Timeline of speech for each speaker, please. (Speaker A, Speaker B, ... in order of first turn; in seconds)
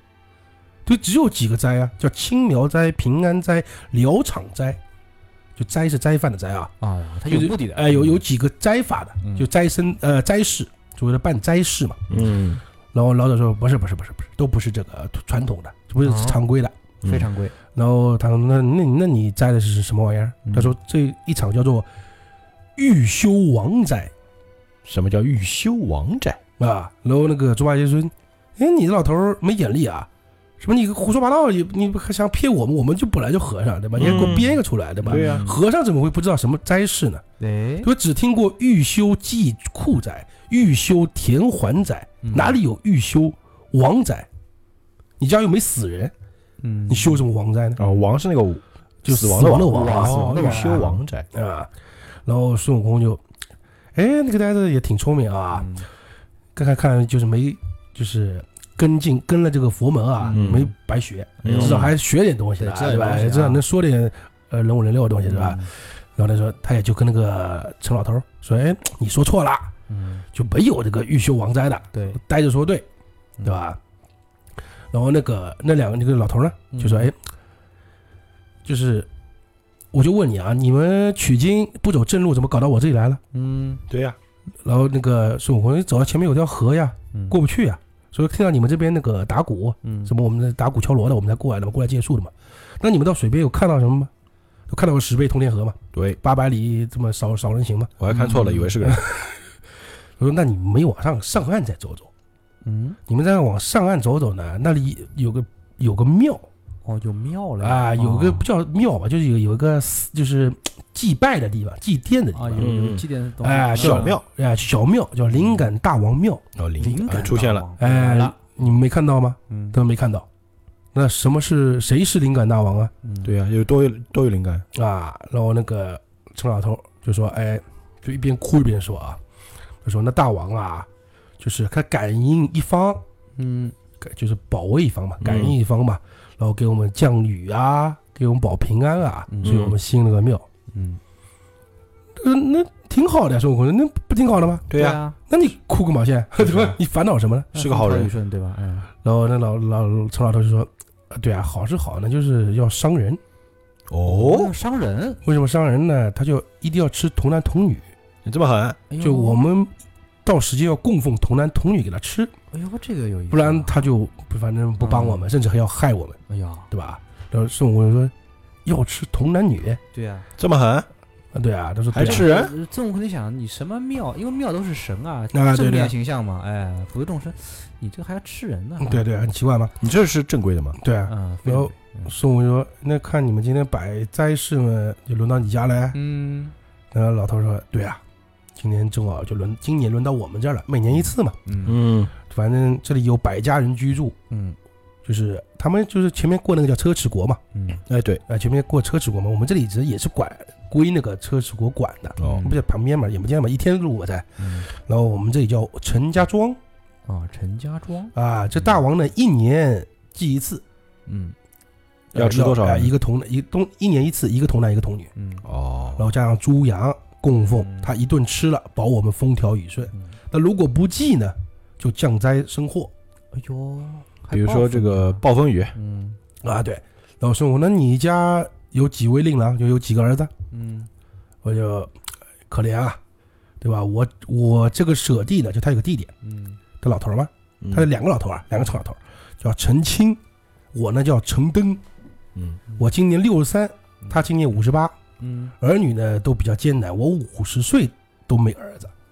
Speaker A: 0.8-4.8, 5.5-6.7, 7.3-12.1, 12.9-16.7, 17.7-21.9, 22.8-24.1, 26.6-30.1, 30.6-37.2, 37.8-44.3, 45.2-46.1, 46.9-47.8, 49.0-51.7, 52.2-53.2, 53.9-55.7, 56.5-69.7, 70.3-72.8, 73.4-73.8, 74.9-77.2, 78.6-79.1, 79.9-83.2, 84.6-94.1, 94.7-98.0, 98.8-99.4, 100.2-102.1, 103.1-106.5, 107.6-112.7, 113.4-116.4, 117.8-120.3, 120.9-122.9, 124.7-129.2, 129.8-130.9, 131.4-133.0, 134.0-140.4, 142.2-144.7, 145.3-147.5, 149.0-153.2, 155.2-157.8, 159.0-159.7, 160.2-162.3, 163.3-166.2, 166.7-168.1, 168.6-169.8, 171.3-172.3, 175.3-175.9, 178.8-179.7, 180.8-186.0, 186.9-188.0, 188.6-191.4, 192.2-194.2, 195.0-197.4, 198.3-206.6, 208.1-210.6, 212.1-215.1, 216.0-222.9, 226.4-230.3, 231.4-231.9, 232.5-233.0, 233.6-236.1, 236.8-240.2, 240.7-241.8, 242.8-244.9, 245.6-248.9
Speaker B: 6.8-8.2, 9.2-9.5, 16.0-16.4, 17.0-17.5, 20.4-20.7, 34.0-34.3, 35.0-35.6, 37.4-37.9, 42.2-42.6, 46.6-47.2, 49.6-51.0, 55.5-55.9, 60.2-60.7, 61.4-61.9, 62.6-63.6, 65.2-65.7, 69.9-70.2, 71.9-72.2, 76.7-77.1, 83.3-83.8, 89.8-90.1, 98.1-98.8, 102.6-103.0, 106.8-108.5, 112.3-114.2, 115.3-115.7, 116.8-118.5, 119.5-119.8, 123.0-123.3, 133.3-133.7, 139.3-139.7, 140.7-141.0, 144.7-145.2, 147.5-148.9, 154.0-155.2, 158.9-159.4, 162.5-163.8, 164.8-165.3, 166.3-166.7, 169.9-170.3, 172.0-179.1, 181.1-182.1, 185.9-186.5, 190.9-191.8, 194.3-194.6, 197.5-197.8, 202.2-202.6, 204.4-204.7, 207.1-208.8, 211.1-211.3, 215.2-215.4, 217.3-217.9, 223.3-225.2, 225.7-226.2, 230.5-230.9, 236.2-236.6, 245.2-245.5
Speaker C: 12.1-12.6, 17.0-17.3, 24.8-26.4, 34.0-35.4, 47.8-51.3, 60.3-60.7, 61.4-61.9, 83.9-84.2, 95.9-96.2, 98.0-99.0, 112.6-113.1, 113.7-114.2, 116.5-117.7, 123.2-124.7, 135.2-135.5, 139.4-139.7, 144.7-145.0, 146.4-146.7, 147.6-148.1, 153.9-154.5, 158.2-158.8, 170.4-170.9, 171.9-172.5, 179.8-180.8, 191.6-192.1, 197.9-198.2, 212.1-212.9, 215.4-216.1, 224.3-225.8, 237.6-237.9, 242.3-242.6